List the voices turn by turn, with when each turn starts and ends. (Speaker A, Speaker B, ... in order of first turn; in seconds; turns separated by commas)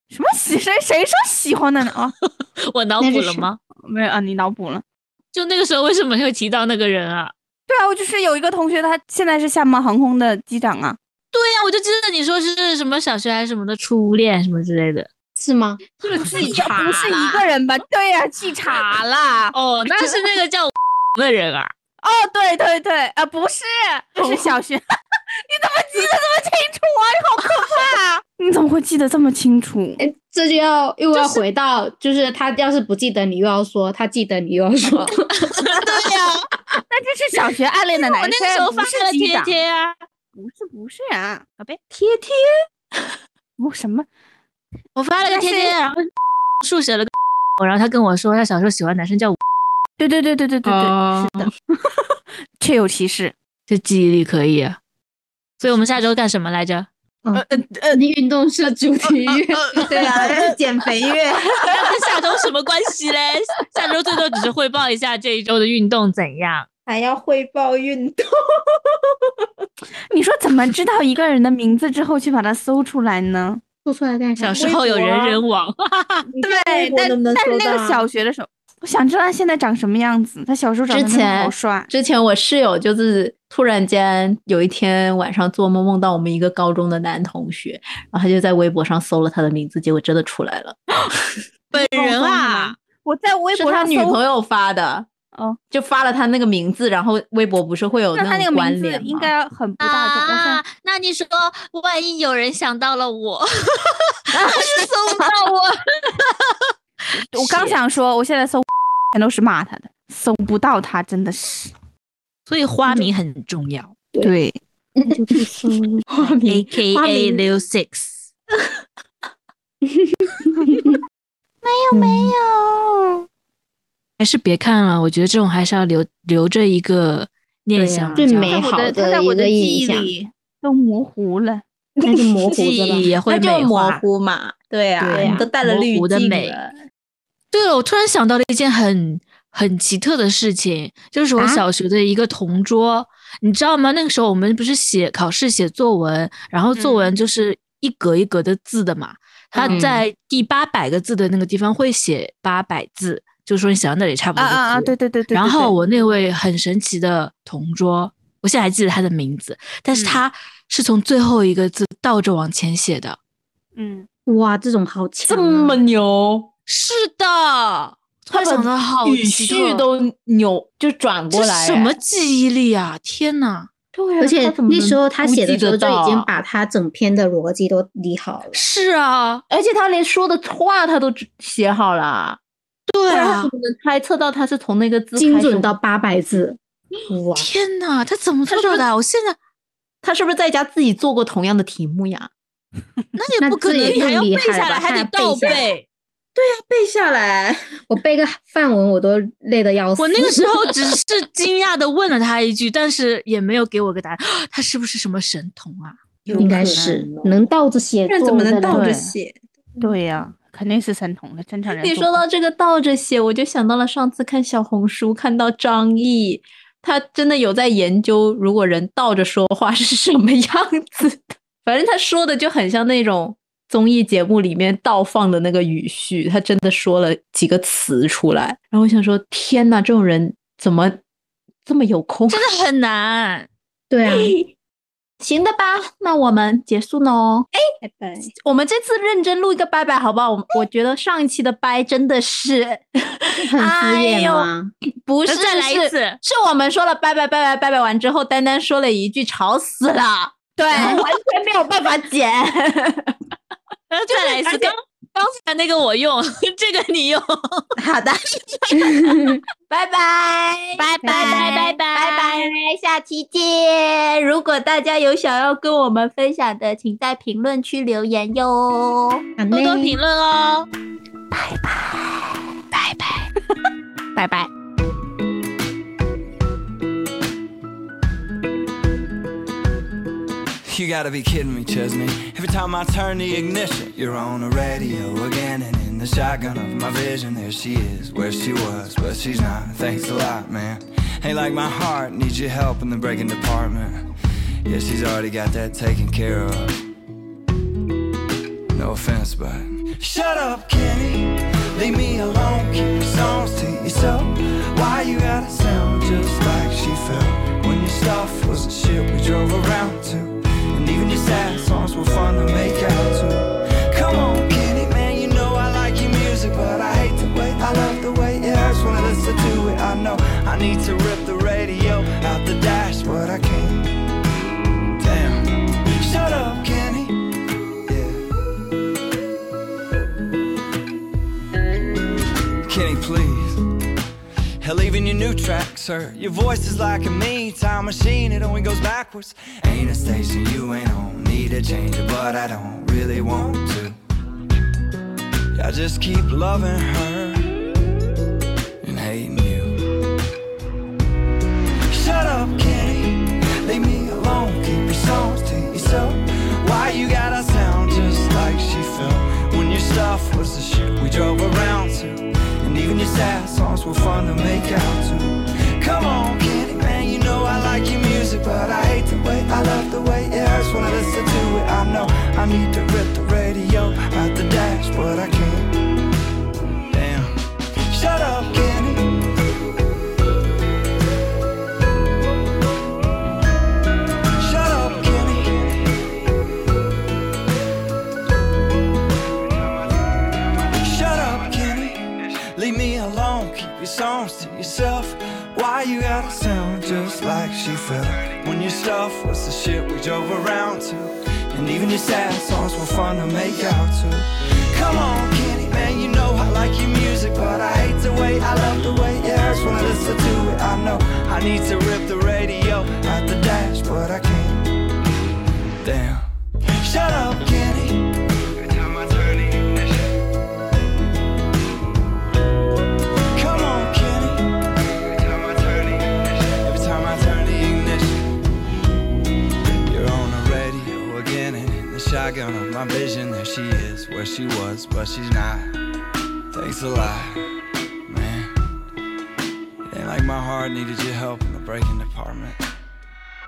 Speaker A: 0.1-2.1, Speaker B: 2.6-3.6, Speaker C: 3.0-3.5, Speaker A: 3.8-4.8, Speaker B: 5.3-7.3, Speaker A: 7.7-11.0, Speaker B: 11.3-15.1, Speaker C: 15.3-15.8, Speaker D: 16.0-17.4, Speaker A: 16.1-20.2, Speaker B: 19.5-21.7, Speaker A: 22.0-24.8, Speaker D: 24.2-24.5, Speaker A: 25.4-30.0, Speaker C: 30.0-35.9, Speaker A: 31.1-31.4, Speaker B: 35.5-36.4, Speaker A: 36.9-39.6, Speaker B: 38.0-40.0, Speaker A: 40.3-41.8, Speaker D: 41.9-43.0, Speaker A: 43.6-44.1, Speaker B: 45.0-46.0, Speaker A: 45.2-45.7, Speaker B: 46.6-49.4, Speaker A: 50.0-51.9, Speaker D: 50.6-51.5, Speaker A: 52.6-53.3, Speaker B: 53.7-54.8, Speaker B: 55.6-56.9, Speaker C: 57.2-60.0, Speaker B: 59.8-60.5, Speaker D: 59.9-61.9, Speaker B: 61.6-66.7, Speaker D: 66.9-69.5, Speaker A: 70.1-73.6, Speaker C: 73.8-74.6, Speaker B: 74.4-76.3, Speaker D: 74.5-75.4, Speaker D: 76.3-78.1, Speaker A: 76.4-81.9, Speaker D: 80.9-91.3, Speaker A: 91.7-94.2, Speaker B: 91.7-92.7, Speaker D: 93.5-95.1, Speaker A: 95.3-95.6, Speaker D: 95.7-99.3, Speaker A: 98.1-100.6, Speaker B: 99.8-106.7, Speaker A: 104.3-105.3, Speaker A: 107.3-111.7, Speaker B: 107.3-107.8, Speaker B: 112.5-114.0, Speaker A: 114.2-114.6, Speaker C: 115.0-116.1, Speaker D: 116.1-117.4, Speaker B: 116.5-118.2, Speaker C: 119.9-121.0, Speaker B: 121.8-122.2, Speaker C: 121.9-122.3, Speaker B: 124.2-128.6, Speaker D: 127.8-128.5, Speaker C: 128.2-130.1, Speaker A: 128.5-131.6, Speaker D: 131.9-132.5, Speaker C: 132.0-133.1, Speaker B: 132.5-134.0, Speaker D: 133.2-136.7, Speaker C: 135.0-135.5, Speaker B: 135.1-136.6, Speaker B: 137.5-163.2, Speaker A: 146.7-147.1, Speaker A: 149.5-149.8, Speaker D: 149.7-150.0, Speaker A: 154.3-155.7, Speaker A: 159.9-160.2, Speaker A: 163.8-164.1, Speaker C: 164.3-165.8, Speaker D: 165.2-166.5, Speaker B: 166.7-169.8, Speaker D: 168.3-171.9, Speaker B: 171.3-173.7, Speaker D: 173.9-176.3, Speaker C: 174.2-178.6, Speaker B: 178.5-179.4, Speaker D: 179.5-182.4, Speaker B: 182.9-183.5, Speaker D: 183.1-185.7, Speaker C: 185.2-187.5, Speaker B: 187.3-189.3, Speaker D: 188.5-188.9, Speaker D: 190.0-192.3, Speaker B: 193.2-195.8, Speaker C: 193.4-195.6, Speaker D: 196.3-197.6, Speaker C: 197.9-200.5, Speaker B: 200.0-206.0, Speaker A: 206.3-207.1, Speaker D: 206.3-207.4, Speaker C: 206.4-208.9, Speaker D: 208.1-209.3, Speaker A: 208.7-209.1, Speaker A: 209.8-212.2, Speaker D: 211.7-231.0, Speaker D: 231.6-232.6, Speaker B: 232.3-233.5, Speaker C: 233.9-234.3, Speaker D: 234.1-234.5, Speaker D: 235.2-237.6, Speaker C: 237.8-238.3, Speaker D: 238.4-253.1, Speaker C: 243.4-244.7, Speaker B: 245.2-246.2, Speaker B: 250.6-251.1, Speaker B: 253.9-257.6, Speaker D: 254.1-254.7, Speaker D: 257.8-258.7, Speaker C: 258.8-259.4, Speaker D: 259.7-269.2, Speaker B: 260.8-262.5, Speaker C: 261.0-261.5, Speaker C: 269.4-270.0, Speaker B: 269.5-270.7, Speaker B: 272.7-273.3, Speaker E: 280.6-294.0, Speaker E: 294.6-296.7, Speaker E: 298.7-323.9, Speaker E: 325.0-327.3, Speaker E: 327.8-328.2, Speaker E: 332.6-333.6, Speaker E: 334.6-343.9, Speaker E: 345.5-347.5, Speaker E: 348.8-349.8, Speaker E: 351.9-375.7, Speaker E: 376.9-377.3, Speaker E: 377.9-379.3, Speaker E: 384.4-386.0, Speaker E: 390.8-414.7, Speaker E: 415.8-416.2, Speaker E: 416.8-420.1, Speaker E: 423.3-424.6, Speaker E: 425.1-428.2, Speaker E: 429.9-435.7, Speaker E: 436.5-437.4, Speaker E: 438.1-438.5, Speaker E: 439.9-442.6